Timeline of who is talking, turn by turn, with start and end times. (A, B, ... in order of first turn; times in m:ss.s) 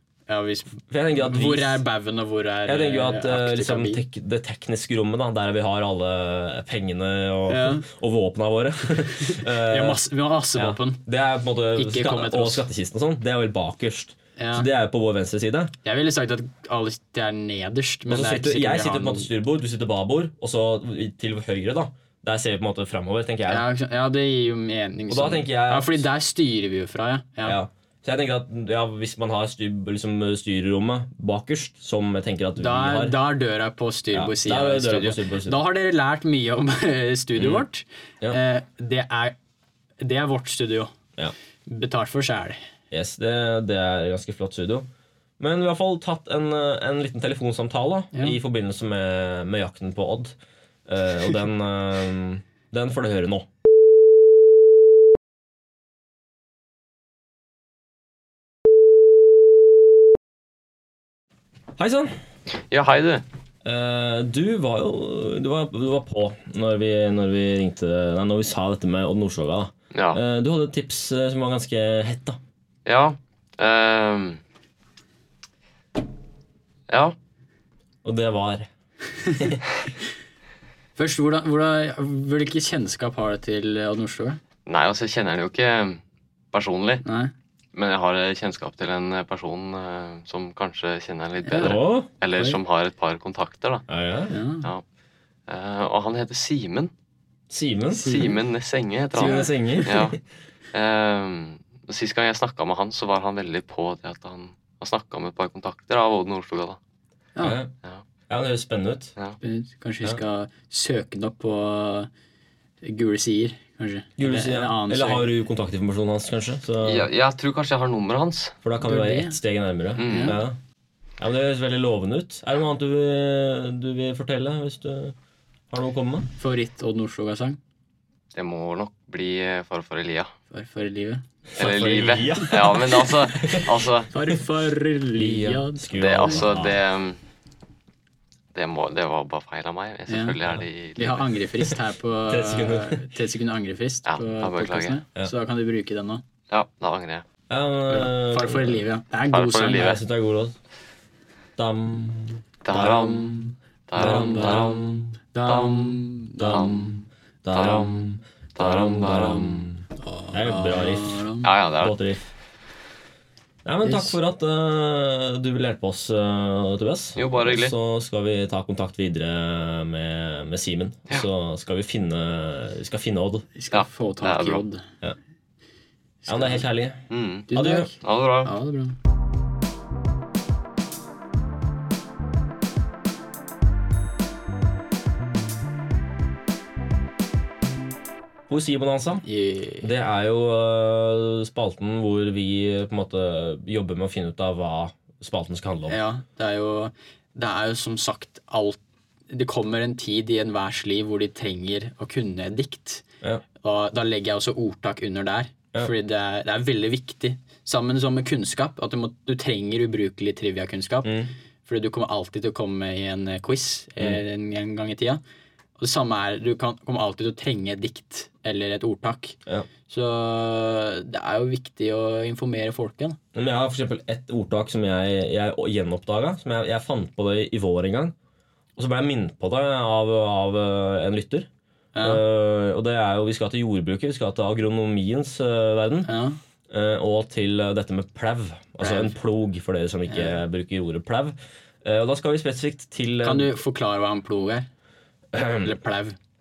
0:00.3-0:04.0 A
0:00.9-0:01.8 B
0:02.7-0:10.0 B
0:07.5-0:07.8 A
0:09.0-0:11.0 A
0:10.6-0:15.7 B
0:11.8-0:12.6 A
0:14.4-0:14.7 A
0:15.8-0:19.3 A
0:18.1-0:23.6 B
0:23.5-0:27.6 A
0:25.1-0:26.0 B
0:27.4-0:33.2 B
0:32.6-0:39.4 A
0:34.1-0:35.6 B
0:37.4-0:37.6 B
0:40.0-0:40.9 A
0:41.7-0:42.6 A
0:42.9-0:44.9 B
0:45.4-0:50.4 B
0:48.1-0:48.4 A
0:50.9-0:53.5 B
1:01.8-1:02.2 B
1:02.6-1:03.2 C
1:03.6-1:12.4 B
1:09.9-1:10.2 C
1:12.8-1:14.4 C
1:16.9-1:17.1 C
1:18.0-1:18.7 B
1:19.2-1:19.5 A
1:19.3-1:19.6 B
1:21.0-1:24.4 A
1:24.6-1:26.0 C
1:26.5-1:27.0 C
1:27.0-1:27.3 A
1:27.7-1:33.8 C
1:31.4-1:32.6 A
1:31.6-1:32.1 B
1:33.9-1:34.4 B
1:34.3-1:34.7 A
1:35.5-1:36.9 C
1:37.5-1:38.2 B
1:37.9-1:38.4 A
1:38.0-1:40.2 C
1:39.1-1:39.9 A
1:39.2-1:40.2 B
1:40.7-1:46.8 C
1:47.3-1:47.6 A
1:47.4-1:47.7 B
1:48.3-1:49.1 B
1:49.4-1:52.1 A
1:52.8-1:55.3 A
1:54.2-1:57.1 B
1:56.8-1:58.6 C
1:58.6-2:00.6 B
1:58.8-1:59.4 A
2:00.0-2:00.4 C
2:00.0-2:00.4 A
2:01.2-2:05.1 B
2:05.7-2:06.3 B
2:06.4-2:07.6 A
2:08.3-2:10.3 C
2:10.5-2:11.2 A
2:11.6-2:13.7 B
2:11.6-2:14.1 C
2:14.1-2:16.5 A
2:15.2-2:16.8 B
2:16.0-2:17.2 C
2:18.5-2:21.4 C
2:20.1-2:20.4 A
2:21.0-2:26.2 A
2:22.3-2:23.0 B
2:24.1-2:25.0 C
2:26.5-2:27.2 C
2:27.5-2:28.8 B
2:27.9-2:30.0 A
2:29.3-2:30.0 C
2:29.7-2:30.5 B
2:31.6-2:33.2 B
2:32.6-2:37.0 C
2:32.8-2:33.4 A
2:34.0-2:34.7 A
2:34.0-2:35.1 B
2:35.3-2:37.0 A
2:36.4-2:36.7 B
2:37.4-2:42.3 B
2:37.5-2:39.7 C
2:40.0-2:41.5 A
2:41.4-2:41.9 C
2:43.6-2:53.4 B
2:43.8-2:44.1 A
2:47.2-2:47.7 C
2:53.5-2:54.9 A
2:53.7-2:54.6 C
2:56.2-2:56.6 A
2:56.3-2:57.9 B
2:57.1-2:58.5 C
2:57.5-2:59.0 A
3:08.5-3:09.2 B
3:09.2-3:09.9 A
3:09.8-3:16.0 B
3:15.9-3:23.0 A
3:23.6-3:35.2 A
3:31.0-3:31.3 B
3:35.8-3:43.2 A
3:43.3-3:48.1 B
3:48.8-3:51.5 B
3:51.9-3:52.2 A
3:52.0-3:56.1 B
3:56.0-3:56.4 A
3:56.7-4:03.5 B
3:58.8-3:59.2 A
4:00.1-4:00.4 A
4:03.2-4:04.7 A
4:05.3-4:05.7 B
4:05.6-4:06.2 A